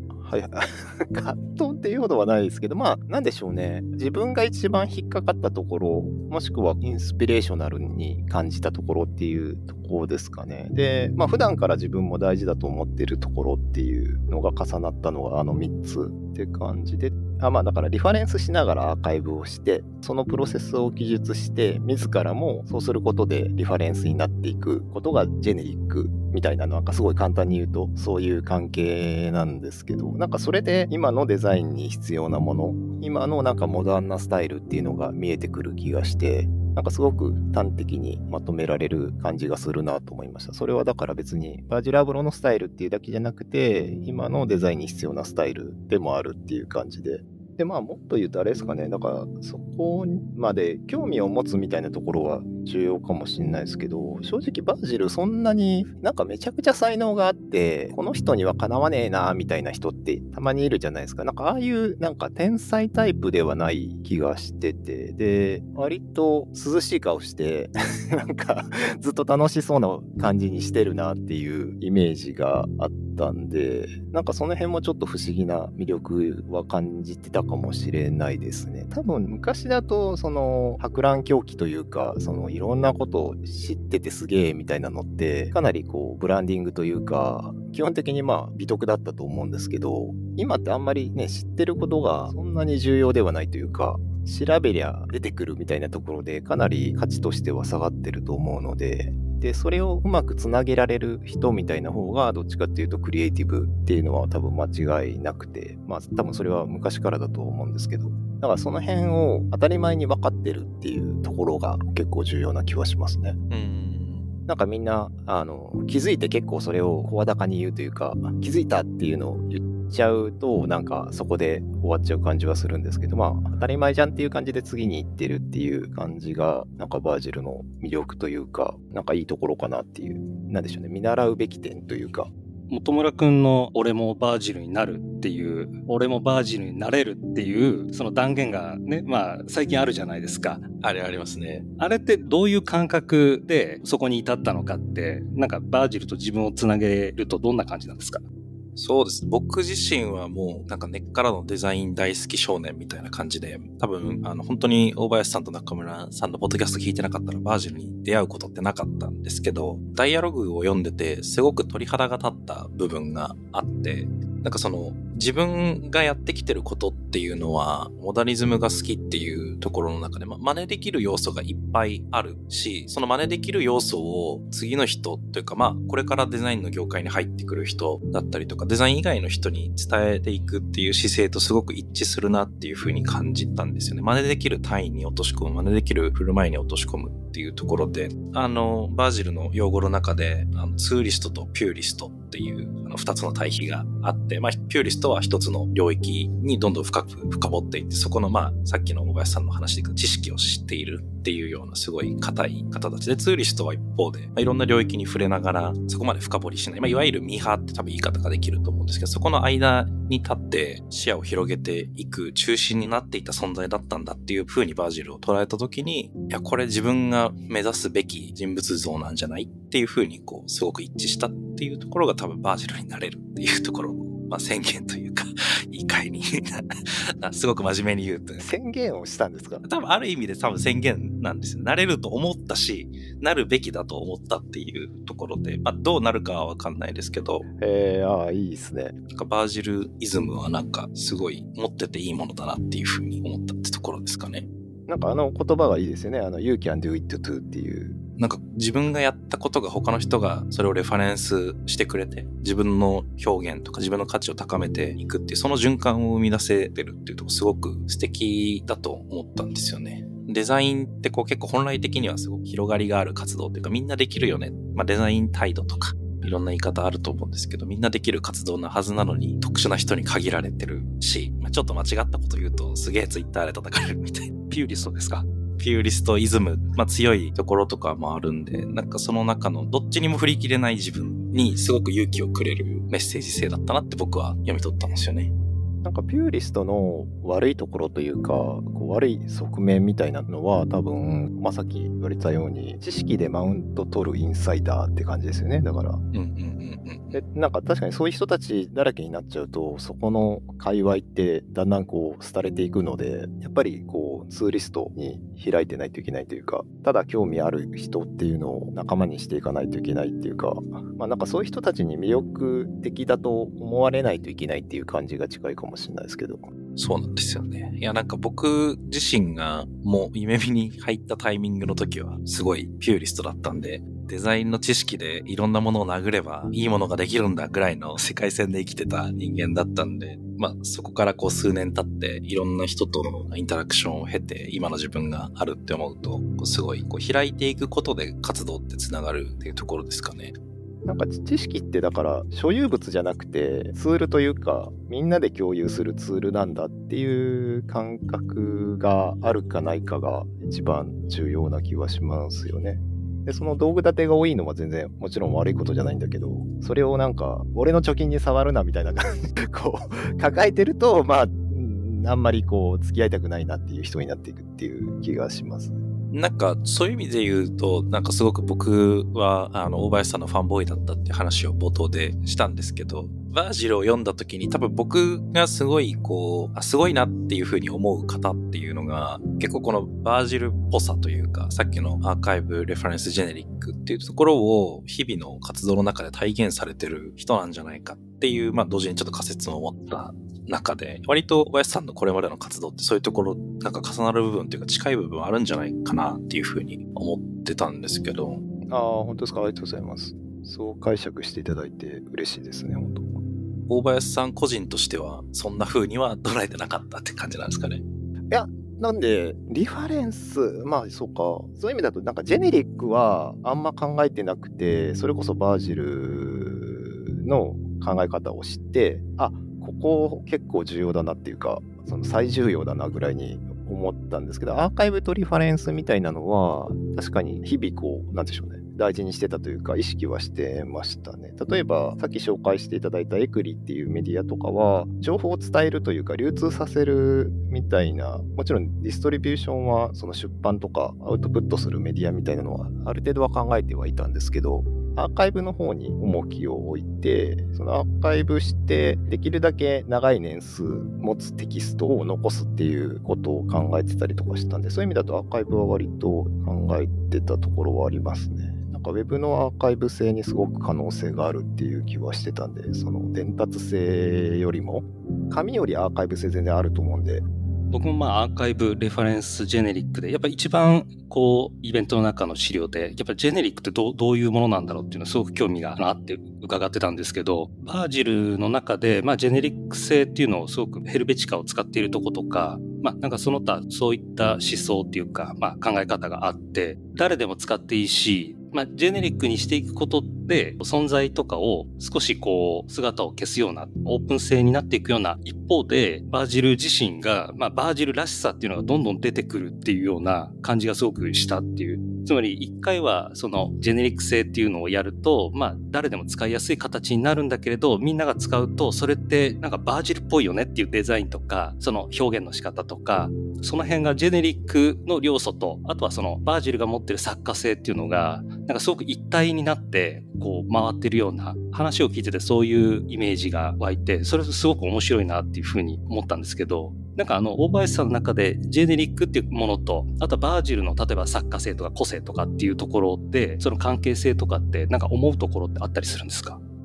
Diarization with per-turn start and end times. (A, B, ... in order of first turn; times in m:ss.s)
0:00.2-1:53.4 A
1:53.5-1:54.3 B
1:54.5-2:12.3 A
2:12.7-2:20.6 C
2:20.8-2:21.7 B
2:21.8-2:28.2 C
2:28.8-3:46.7 B
3:47.2-3:48.4 B
3:48.4-3:49.6 A
3:49.6-3:57.4 B
3:57.6-3:59.0 A
3:59.1-4:04.5 B
4:04.9-4:08.0 A
4:08.2-4:34.3 B
4:34.5-4:35.3 C
4:35.6-4:45.3 B
4:45.8-4:56.0 A
4:56.1-4:57.2 B
4:57.1-5:16.5 A
5:16.8-5:40.4 B
5:40.9-6:05.8 A
6:06.1-6:38.4 B
6:38.7-6:43.1 A
6:43.7-6:47.8 B
6:48.3-7:47.2 A
7:47.7-8:56.4 C